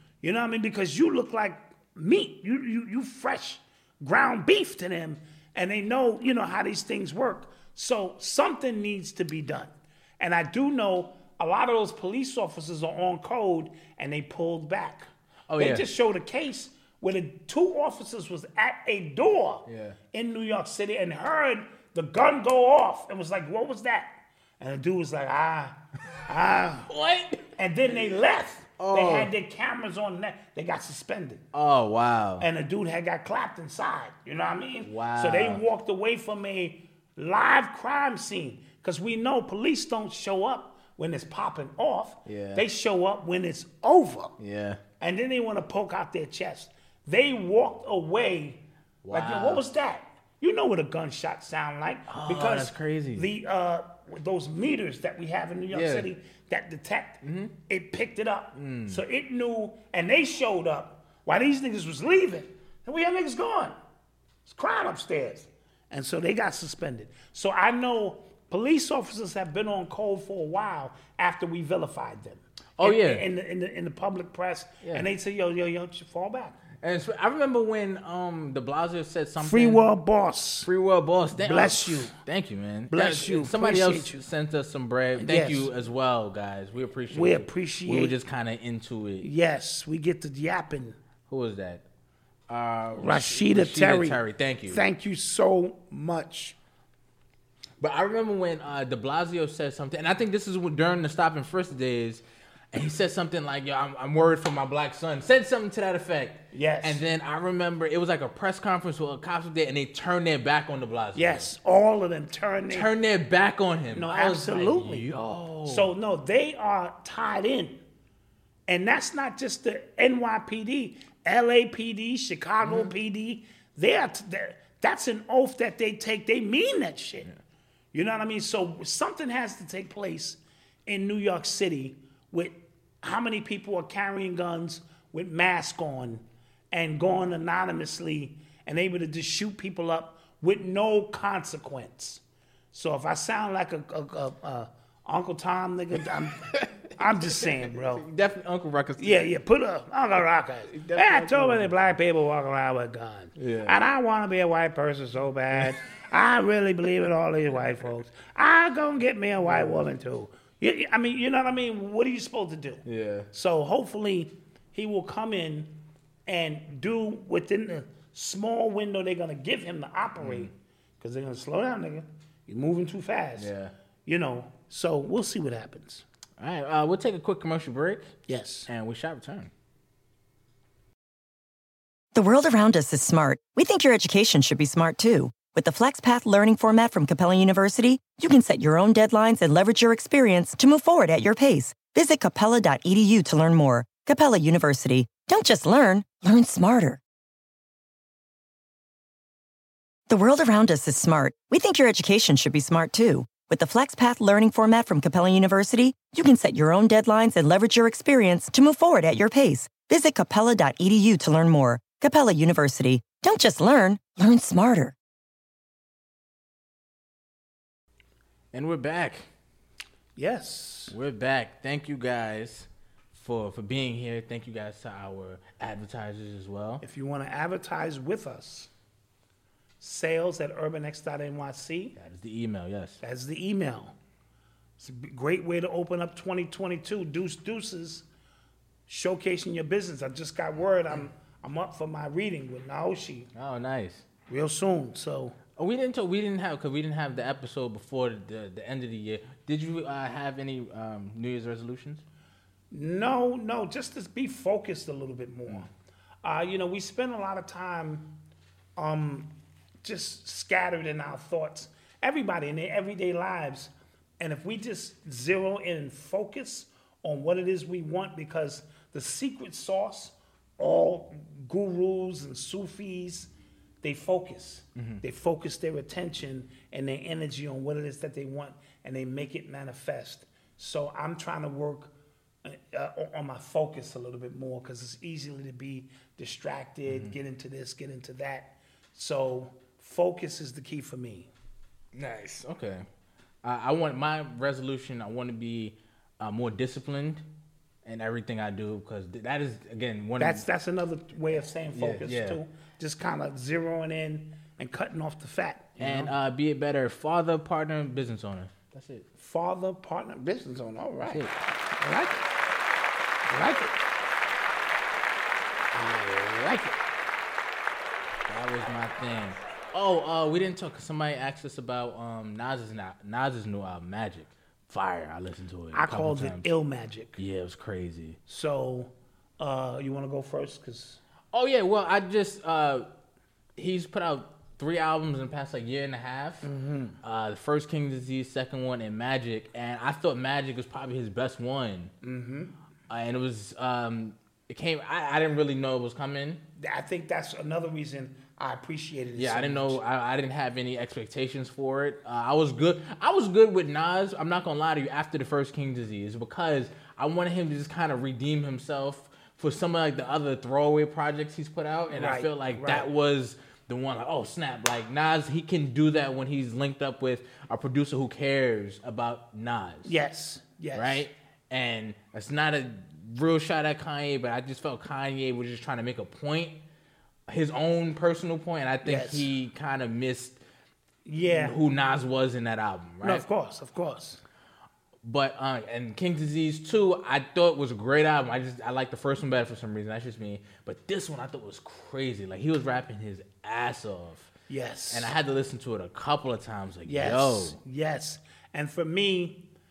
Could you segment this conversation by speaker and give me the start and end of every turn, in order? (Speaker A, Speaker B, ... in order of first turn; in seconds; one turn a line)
Speaker A: 0.2-26.9
Speaker B: 15.5-15.8
Speaker B: 19.7-20.0
Speaker B: 26.9-27.4
Speaker A: 27.6-31.4
Speaker B: 28.8-29.3
Speaker B: 31.5-32.5
Speaker A: 32.4-44.3
Speaker B: 34.8-35.6
Speaker B: 42.2-42.6
Speaker B: 44.4-44.8
Speaker A: 45.0-63.8
Speaker B: 49.0-49.6
Speaker B: 52.1-53.3
Speaker B: 55.7-56.1
Speaker B: 57.2-57.5
Speaker B: 58.5-59.0
Speaker A: 64.5-76.6
Speaker B: 72.8-73.2
Speaker B: 76.8-79.8
Speaker A: 79.4-80.7
Speaker B: 80.6-89.3
Speaker A: 81.4-82.1
Speaker A: 82.9-84.2
Speaker A: 85.2-85.7
Speaker A: 87.1-88.1
Speaker A: 89.2-91.0
Speaker B: 91.3-91.8
Speaker B: 92.5-94.8
Speaker A: 93.0-96.5
Speaker B: 97.8-111.5
Speaker A: 106.5-107.0
Speaker A: 111.1-112.9
Speaker B: 112.7-115.9
Speaker A: 113.9-115.0
Speaker A: 115.7-117.8
Speaker A: 118.7-127.3
Speaker B: 122.6-122.9
Speaker A: 127.9-142.2
Speaker A: 142.7-148.1
Speaker B: 146.3-149.3
Speaker A: 149.0-173.5
Speaker B: 150.7-151.8
Speaker B: 153.4-153.8
Speaker B: 159.4-159.9
Speaker B: 162.8-163.3
Speaker B: 170.2-170.5
Speaker B: 173.4-173.7
Speaker A: 174.1-176.0
Speaker B: 176.4-178.2
Speaker A: 178.3-178.7
Speaker B: 178.7-179.5
Speaker C: 182.1-197.0
Speaker C: 200.1-214.9
Speaker B: 218.5-219.3
Speaker A: 220.2-220.9
Speaker B: 220.9-226.8
Speaker A: 226.8-228.7
Speaker A: 229.8-231.9
Speaker B: 232.0-233.0
Speaker A: 233.0-233.9
Speaker A: 234.8-238.1
Speaker A: 238.9-243.3
Speaker B: 243.3-244.0
Speaker A: 244.3-245.4
Speaker B: 245.6-252.0
Speaker A: 252.7-255.7
Speaker A: 256.2-258.2
Speaker A: 258.8-259.3
Speaker A: 259.8-273.3
Speaker A: 273.8-281.9
Speaker B: 274.8-275.0
Speaker A: 282.4-291.3
Speaker B: 286.9-287.1
Speaker B: 291.9-292.9
Speaker B: 293.4-297.2
Speaker B: 297.8-300.4
Speaker A: 300.2-306.1
Speaker B: 301.7-302.4
Speaker B: 305.8-309.0
Speaker A: 309.2-312.2
Speaker B: 311.1-311.3
Speaker A: 313.3-313.8
Speaker A: 315.7-316.8
Speaker B: 318.3-326.5
Speaker A: 325.7-327.2
Speaker B: 327.2-328.2
Speaker A: 328.3-331.0
Speaker B: 331.3-332.9
Speaker B: 333.6-336.5
Speaker A: 336.4-337.0
Speaker B: 337.0-341.9
Speaker A: 342.0-342.5
Speaker B: 342.9-346.4
Speaker A: 346.6-349.8
Speaker B: 349.1-369.9
Speaker A: 361.9-362.9
Speaker A: 369.8-371.1
Speaker B: 370.7-376.6
Speaker B: 377.3-380.4
Speaker A: 378.8-379.3
Speaker A: 381.1-381.6
Speaker B: 381.3-383.2
Speaker A: 383.0-384.2
Speaker B: 385.0-394.3
Speaker A: 394.5-395.1
Speaker B: 394.9-397.6
Speaker A: 396.9-399.4